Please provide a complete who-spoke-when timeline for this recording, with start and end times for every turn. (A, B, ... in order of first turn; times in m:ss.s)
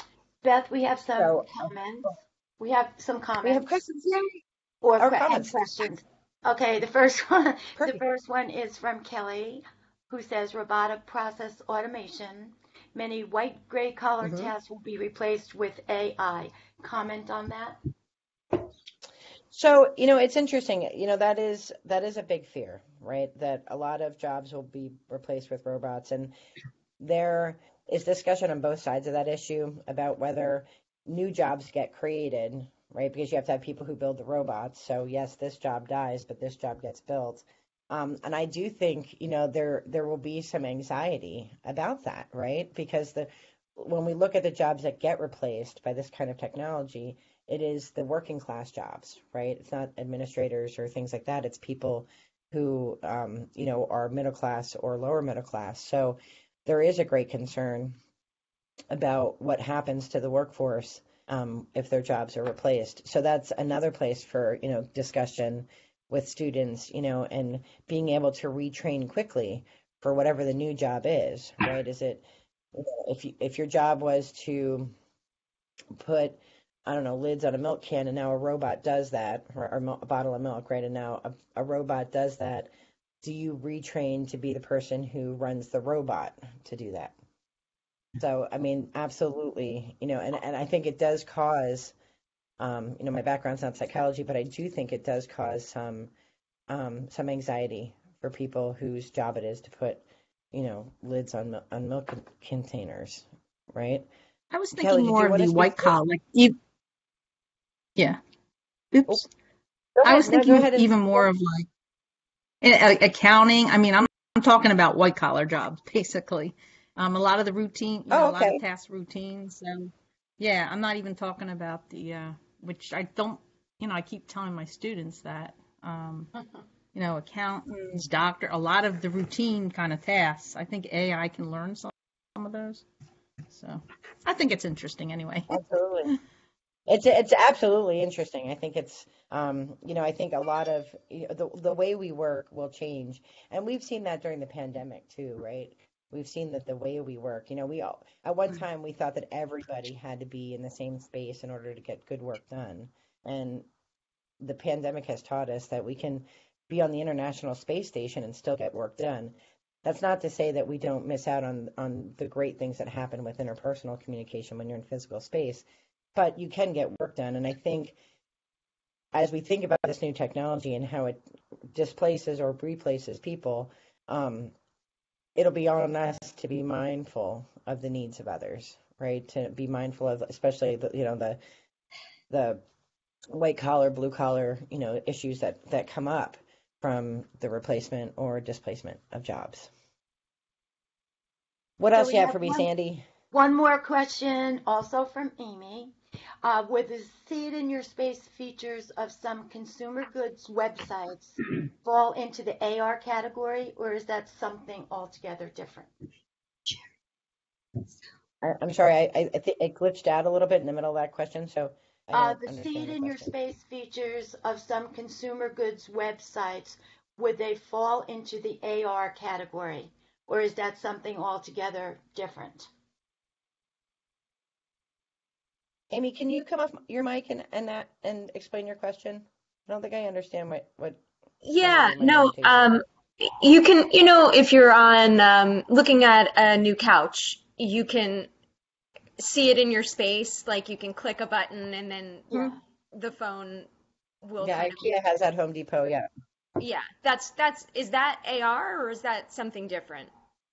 0:00.4-0:03.7 A
0:01.2-0:01.5 B
0:03.4-0:04.4 B
0:04.8-0:17.8 A
0:05.0-0:05.7 B
0:07.8-0:08.0 B
0:14.2-0:14.5 B
0:19.5-0:26.3 B
0:27.0-0:58.0 B
0:58.9-1:14.9 B
1:15.9-1:22.7 B
1:23.2-1:27.2 B
1:28.2-1:31.9 B
1:32.6-1:36.1 B
1:36.7-1:44.1 B
1:44.5-1:46.6 C
1:44.8-1:46.0 B
1:48.9-1:49.3 C
1:50.0-1:51.3 B
1:50.0-1:51.7 C
1:52.6-2:06.3 C
1:58.1-1:58.6 B
2:06.9-2:12.9 C
2:13.5-2:16.1 C
2:15.5-2:16.2 B
2:16.9-2:33.7 B
2:34.4-2:39.3 B
2:39.8-2:48.0 B
2:49.1-2:51.2 B
2:51.7-2:54.5 B
2:55.4-3:01.4 B
3:02.3-3:02.6 B
3:03.3-3:09.7 B
3:11.8-3:13.0 B
3:11.9-3:12.7 A
3:13.3-3:25.9 A
3:28.4-3:33.3 B
3:32.1-3:42.7 A
3:45.9-3:51.0 B
3:51.4-3:58.3 D
3:51.6-3:52.8 B
3:59.2-4:03.7 D
4:04.2-4:04.9 D
4:04.4-4:06.1 B
4:06.6-4:10.1 D